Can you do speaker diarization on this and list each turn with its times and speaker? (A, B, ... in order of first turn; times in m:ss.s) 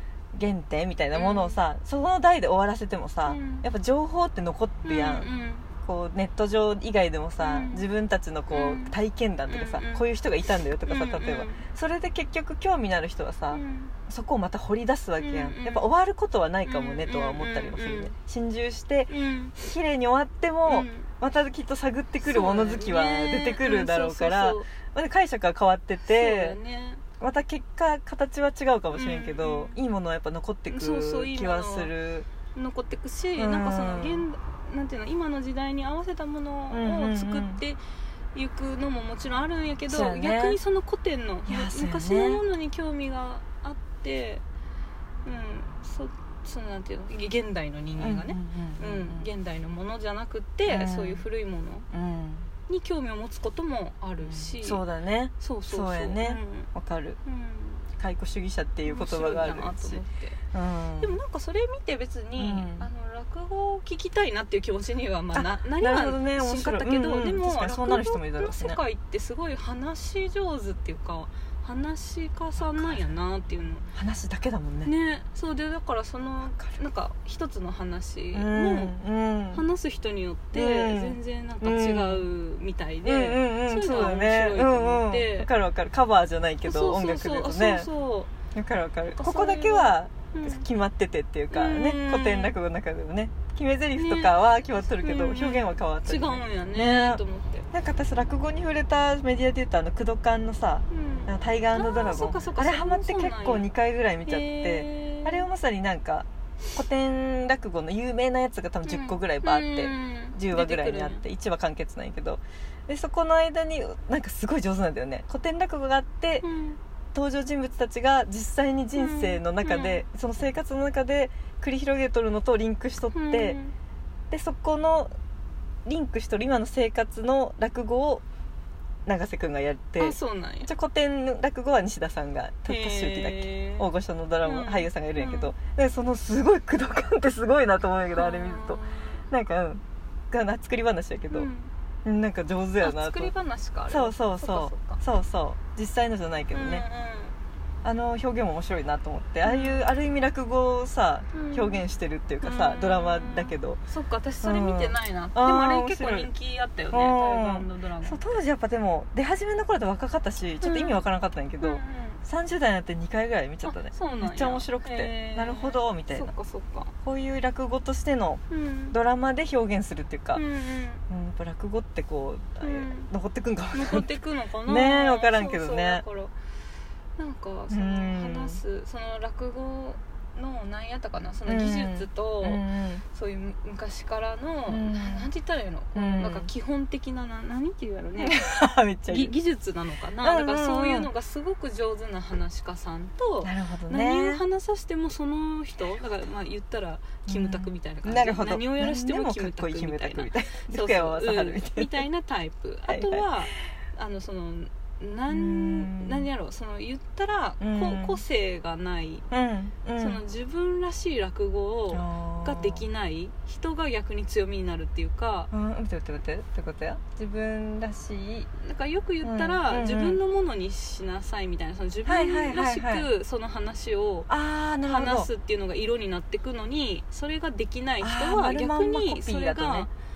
0:00.3-0:05.3 A
0:01.1-0:01.6 B
0:03.3-0:03.6 B
0:04.8-0:05.7 B
0:05.8-0:26.6 A
0:07.4-0:07.8 B
0:08.5-0:09.0 B
0:09.5-0:10.1 B
0:10.8-0:11.6 B
0:13.5-0:13.9 B
0:15.2-0:15.8 B
0:16.6-0:18.1 B
0:19.1-0:19.5 B
0:20.7-0:21.1 B
0:22.2-0:24.7 B
0:26.0-0:27.0 B
0:27.2-0:32.3 A
0:28.9-0:29.8 B
0:30.7-0:31.9 B
0:32.5-0:37.8 B
0:33.4-0:34.2 A
0:36.7-0:37.6 A
0:38.3-0:44.4 B
0:39.9-0:40.6 A
0:41.5-0:42.4 A
0:45.2-0:51.9 B
0:48.0-0:49.3 A
0:50.6-0:51.2 A
0:51.9-0:52.5 A
0:52.7-0:54.8 B
0:54.2-0:57.2 A
0:55.4-0:56.7 B
0:57.2-0:57.9 B
0:58.0-1:00.0 A
0:58.8-1:00.4 B
1:00.5-1:01.1 A
1:01.0-1:13.8 B
1:02.4-1:02.9 A
1:05.3-1:08.8 A
1:12.6-1:13.1 A
1:13.9-1:14.9 A
1:14.8-1:19.0 B
1:18.3-1:19.6 A
1:19.5-1:25.5 B
1:20.5-1:22.2 A
1:23.0-1:27.9 A
1:26.6-1:28.3 B
1:28.5-1:56.4 A
1:29.2-1:30.6 B
1:31.5-1:32.5 B
1:34.0-1:37.7 B
1:40.9-1:43.7 B
1:44.2-1:45.5 B
1:48.8-1:51.2 B
1:56.4-1:56.8 B
1:57.1-2:03.6 A
1:58.9-2:00.0 B
2:03.1-2:03.7 B
2:04.3-2:05.1 A
2:05.8-2:08.2 A
2:09.0-2:21.5 A
2:10.0-2:10.7 B
2:12.7-2:13.9 B
2:14.4-2:15.5 B
2:18.1-2:19.3 B
2:21.3-2:21.7 B
2:22.0-2:23.3 A
2:22.8-2:25.0 B
2:23.9-2:26.8 A
2:26.5-2:27.4 B
2:27.8-2:33.8 A
2:29.4-2:29.9 B
2:31.3-2:31.8 B
2:32.4-2:38.3 B
2:34.4-2:36.3 A
2:36.9-2:46.3 A
2:40.6-2:41.0 B
2:41.6-2:42.2 B
2:43.6-2:46.9 B
2:47.0-2:50.4 A
2:48.5-2:49.0 B
2:50.3-2:51.0 B
2:51.1-2:54.1 A
2:52.6-2:53.1 B
2:53.7-2:56.3 B
2:54.6-2:56.0 A
2:57.2-3:08.5 B
2:57.7-2:58.6 A
3:01.4-3:03.0 A
3:04.7-3:05.3 A
3:05.9-3:06.5 A
3:08.2-3:09.3 A
3:09.0-3:29.2 B
3:10.2-3:11.1 A
3:13.4-3:14.4 A
3:17.3-3:22.0 A
3:22.9-3:23.4 A
3:25.3-3:26.3 A
3:27.6-3:28.2 A
3:29.3-3:30.2 A
3:30.0-3:35.5 B
3:31.9-3:32.8 A
3:35.5-3:38.5 A
3:38.6-3:44.3 B
3:39.2-3:40.2 A
3:42.0-3:43.1 A
3:44.3-3:45.3 A
3:44.8-3:49.9 B
3:48.0-3:49.9 A